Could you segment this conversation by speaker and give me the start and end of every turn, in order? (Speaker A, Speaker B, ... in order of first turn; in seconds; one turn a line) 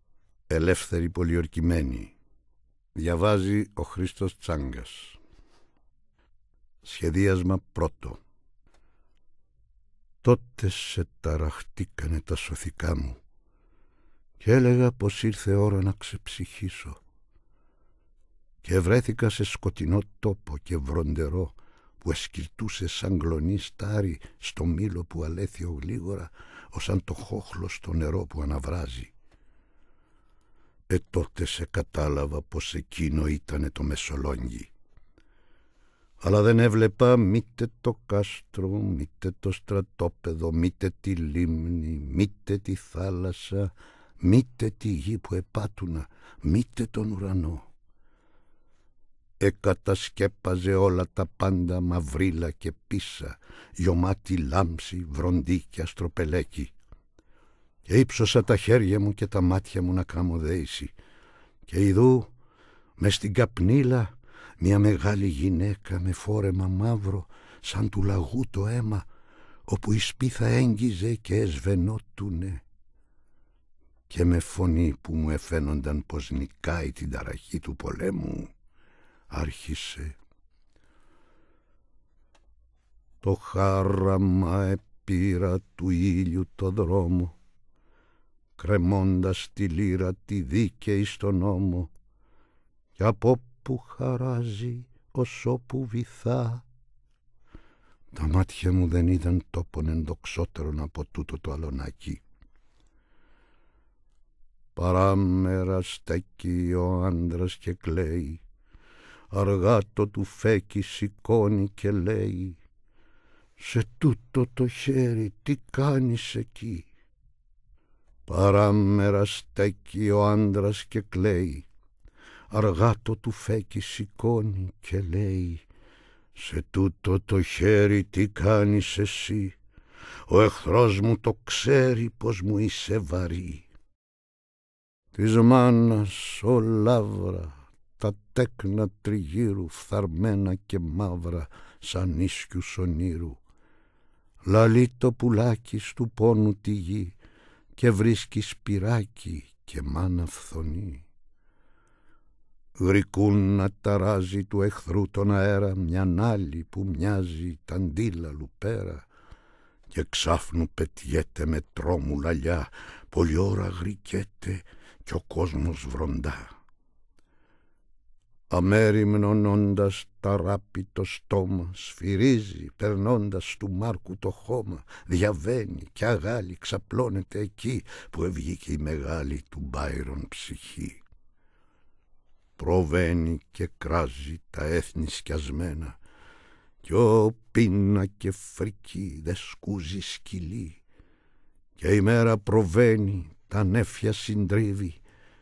Speaker A: 0.5-2.1
Speaker A: 2.9-5.2
Speaker A: 6.8-8.2
Speaker A: 10.2-13.2
Speaker A: 14.4-17.0
Speaker A: 18.6-29.1
Speaker A: 30.9-34.7
Speaker A: 36.2-47.7
Speaker A: 49.4-56.7
Speaker A: 57.9-60.9
Speaker A: 61.7-62.3
Speaker A: 63.0-69.1
Speaker A: 69.7-72.6
Speaker A: 74.1-78.5
Speaker A: 79.3-80.2
Speaker A: 83.2-87.3
Speaker A: 88.6-91.9
Speaker A: 93.0-96.7
Speaker A: 98.1-102.2
Speaker A: 104.8-108.4
Speaker A: 109.3-112.6
Speaker A: 113.6-116.9
Speaker A: 118.3-121.7
Speaker A: 122.5-125.6
Speaker A: 126.3-129.6
Speaker A: 130.3-133.7
Speaker A: 135.1-143.4
Speaker A: 144.4-147.2
Speaker A: 147.8-151.1
Speaker A: 152.8-159.1
Speaker A: 159.9-166.5
Speaker A: 168.5-181.0
Speaker A: 182.6-186.0
Speaker A: 186.8-190.8
Speaker A: 191.8-195.0